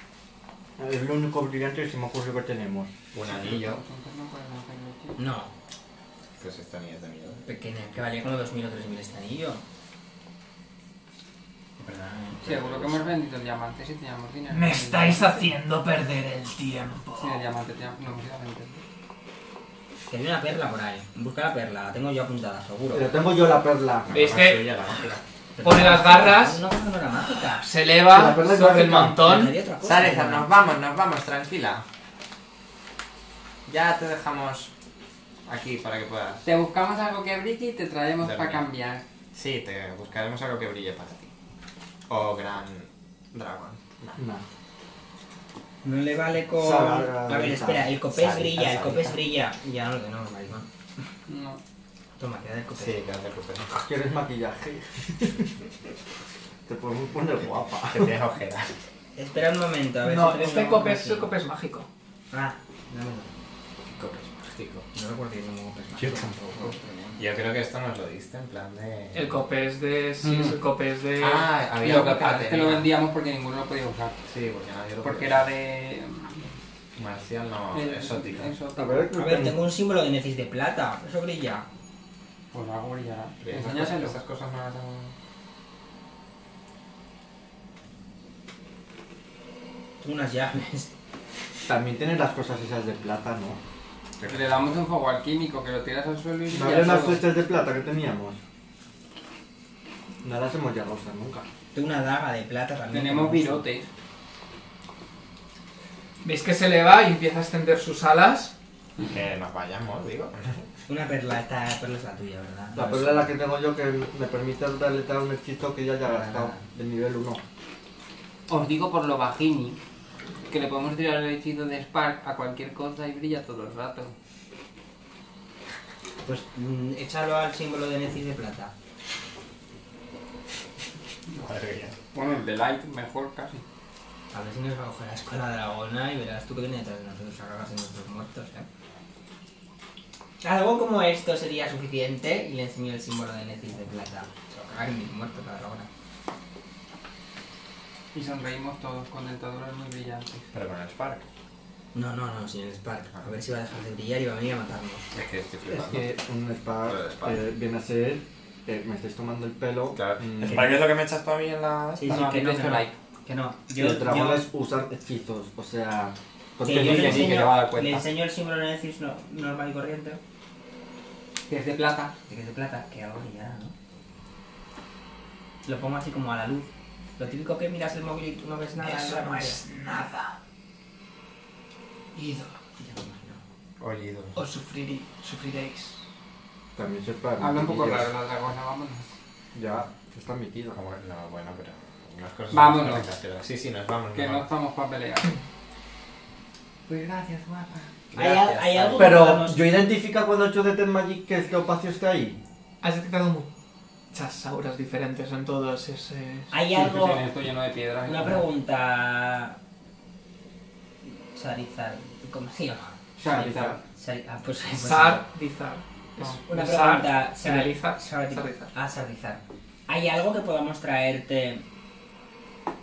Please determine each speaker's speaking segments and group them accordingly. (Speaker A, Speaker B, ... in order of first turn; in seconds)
Speaker A: 0.8-2.9, 22.9-24.1, 28.1-29.2, 44.2-44.4, 46.6-47.9, 53.9-55.4, 56.7-58.1, 78.8-79.5, 91.7-93.6, 96.5-98.4, 100.2-101.5, 112.7-117.4, 155.7-160.8, 163.8-167.4, 186.8-188.1, 189.5-190.8, 199.0-202.4, 213.2-213.8
Speaker B: 3.1-3.8, 6.4-7.4, 12.4-13.1, 24.1-25.2, 29.8-31.8, 33.6-34.7, 35.5-36.4, 38.2-38.6, 39.3-41.3, 42.1-44.2, 48.1-49.2, 52.8-53.9, 57.9-58.8, 63.9-64.8, 66.0-69.4, 71.2-72.9, 74.3-75.5, 77.0-78.5, 83.4-85.1, 94.2-94.7, 109.0-110.7, 131.3-132.0, 150.5-151.3, 155.1-156.1, 156.8-157.4, 159.9-162.2, 183.8-184.4, 190.7-194.5, 198.1-199.3
Speaker C: 3.2-5.2, 12.4-15.4, 17.1-18.8, 36.4-39.0, 51.3-51.6, 70.2-70.6, 71.8-74.3, 75.0-76.5, 77.7-78.9, 82.5-84.2, 94.2-97.2, 102.9-103.9, 118.5-119.8, 120.5-124.2, 132.1-133.6, 148.1-150.5, 162.0-162.9, 166.7-168.0, 171.5-172.1, 187.4-189.2, 192.5-193.1, 194.1-195.4, 196.9-197.9, 206.7-208.5, 213.2-213.8
Speaker D: 5.2-5.5, 7.4-9.6, 11.8-12.4, 20.1-23.1, 25.6-27.6, 29.1-30.5, 45.8-50.7, 52.2-53.0, 59.1-61.3, 62.3-63.3, 64.9-67.2, 79.2-81.7, 90.0-90.9, 101.7-103.7, 110.9-113.3, 116.1-116.6, 126.2-128.7, 134.3-138.7, 140.4-145.9, 151.9-155.0, 161.9-164.4, 166.6-170.2, 172.3-173.7, 175.6-179.6, 182.8-183.4, 198.1-199.6, 206.5-207.3, 208.0-209.6, 211.3-212.9, 213.9-215.2, 216.5-221.6
Speaker E: 14.5-17.4, 24.1-25.1, 25.6-26.6, 27.4-29.6, 60.0-61.9, 69.1-71.5, 106.2-108.5, 178.8-180.4, 182.1-182.6, 184.3-186.1, 202.8-203.5, 204.1-206.5, 214.7-218.7